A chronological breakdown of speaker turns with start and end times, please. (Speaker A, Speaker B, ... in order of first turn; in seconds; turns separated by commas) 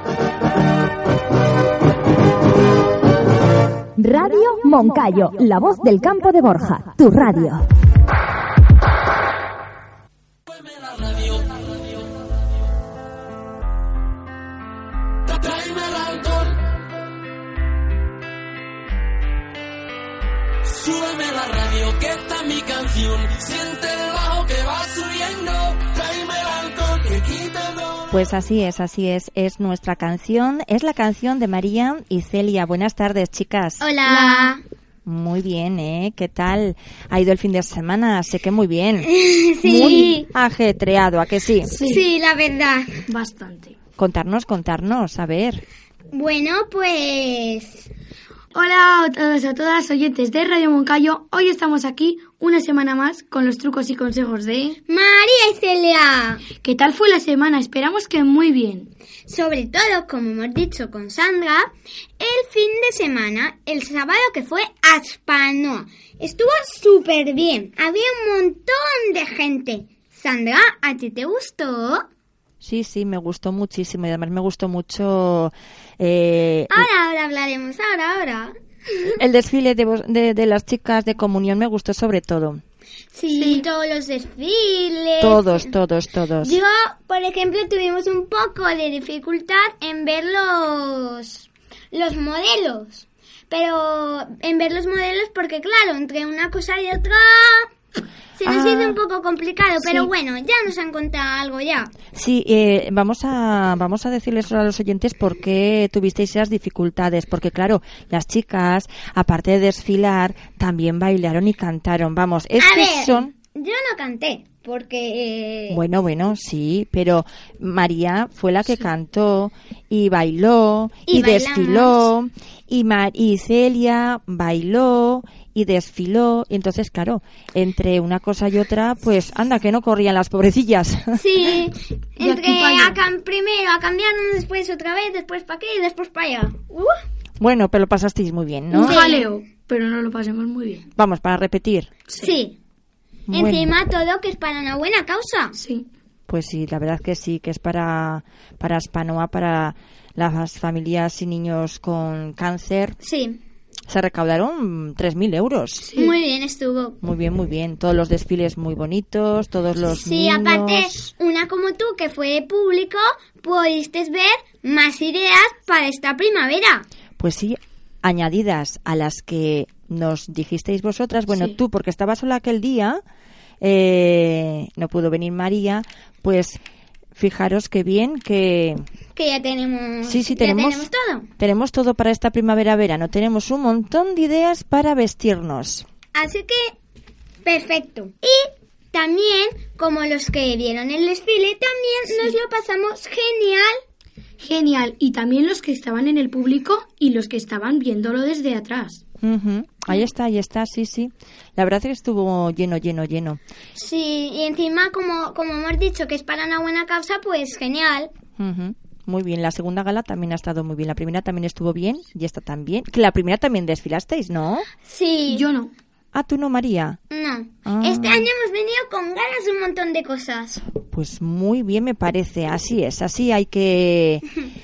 Speaker A: 4.0-7.7, Speaker B: 15.4-16.5, Speaker B: 20.8-28.0, Speaker C: 28.1-33.9, Speaker D: 33.8-34.6, Speaker E: 34.1-34.5, Speaker C: 35.0-39.1, Speaker D: 39.0-40.3, Speaker C: 39.6-41.7, Speaker E: 41.7-42.0, Speaker D: 41.7-43.0, Speaker E: 43.1-43.8, Speaker C: 44.0-45.6, Speaker D: 46.1-47.9, Speaker E: 48.5-54.8, Speaker D: 54.9-56.5, Speaker E: 56.6-58.9, Speaker D: 59.3-72.0, Speaker C: 72.6-76.9, Speaker D: 76.7-79.2, Speaker C: 79.2-82.6, Speaker D: 83.1-85.7, Speaker E: 83.3-83.7, Speaker C: 85.2-86.6, Speaker D: 86.4-97.7, Speaker D: 98.4-101.9, Speaker C: 98.5-99.0, Speaker C: 99.8-100.1, Speaker C: 102.1-113.3, Speaker D: 112.6-115.8, Speaker C: 115.7-131.2, Speaker D: 121.1-122.1, Speaker D: 131.2-137.0, Speaker E: 132.2-133.0, Speaker C: 137.4-139.0, Speaker E: 138.7-140.9, Speaker D: 138.7-139.3, Speaker C: 141.0-141.9, Speaker E: 142.1-142.4, Speaker D: 142.2-142.6, Speaker C: 143.3-143.7, Speaker D: 143.3-145.6, Speaker E: 145.6-145.9, Speaker C: 146.3-153.0, Speaker D: 153.0-153.4, Speaker C: 153.9-155.9, Speaker E: 155.9-156.1, Speaker D: 155.9-157.0, Speaker C: 157.0-161.1, Speaker D: 159.8-166.9, Speaker C: 167.2-173.0, Speaker C: 173.6-176.6, Speaker C: 177.2-178.8, Speaker D: 179.1-181.3, Speaker C: 180.0-185.9, Speaker D: 186.1-186.8, Speaker D: 187.4-193.8, Speaker E: 194.4-199.0, Speaker C: 199.2-203.4, Speaker D: 203.8-208.1, Speaker C: 208.4-214.7, Speaker D: 214.8-215.4, Speaker E: 215.3-215.7, Speaker C: 216.1-217.0, Speaker D: 217.1-220.7, Speaker C: 217.7-218.3, Speaker C: 220.9-224.3